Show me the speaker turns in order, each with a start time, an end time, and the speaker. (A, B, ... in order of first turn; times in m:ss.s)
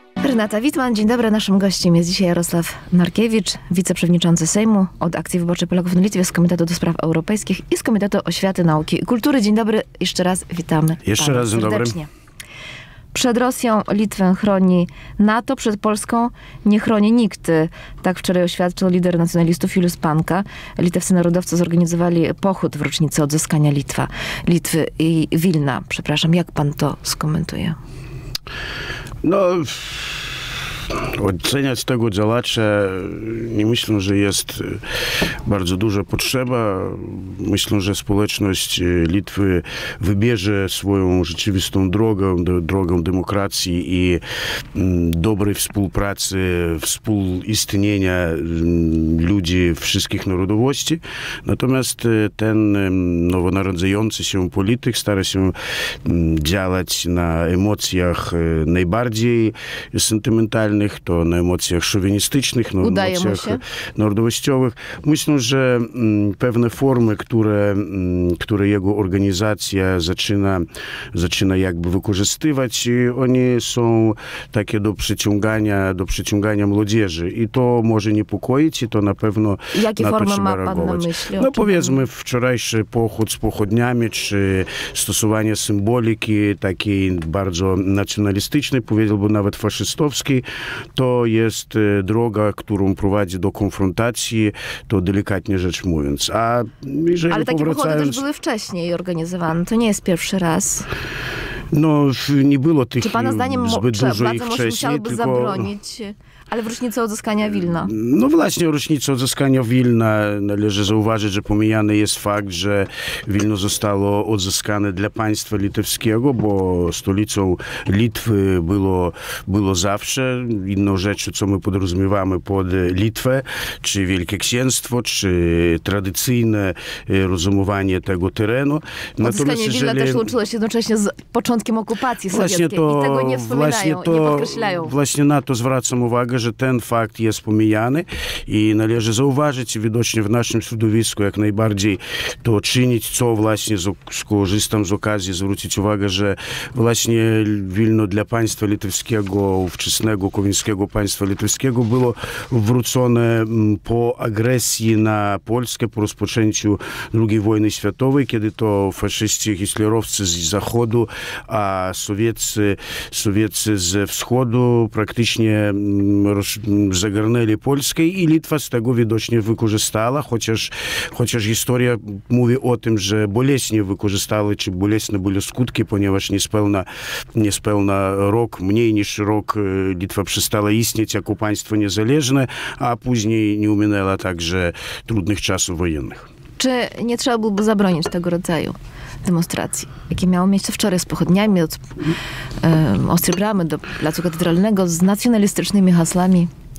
0:00.2-0:12.1 A
0:11.0-0:12.0 B
0:13.1-0:27.8 A
0:29.2-0:34.8 B
0:35.4-0:44.2 B
0:44.7-0:55.5 B
0:56.0-1:30.4 B
1:02.8-1:03.6 A
1:19.7-1:22.0 A
1:30.9-1:38.2 B
1:37.3-1:40.9 A
1:41.7-1:45.7 B
1:43.0-1:47.9 A
1:47.7-2:10.3 B
2:09.2-2:14.9 A
2:12.3-3:06.3 B
3:06.6-3:11.8 A
3:12.6-3:16.5 A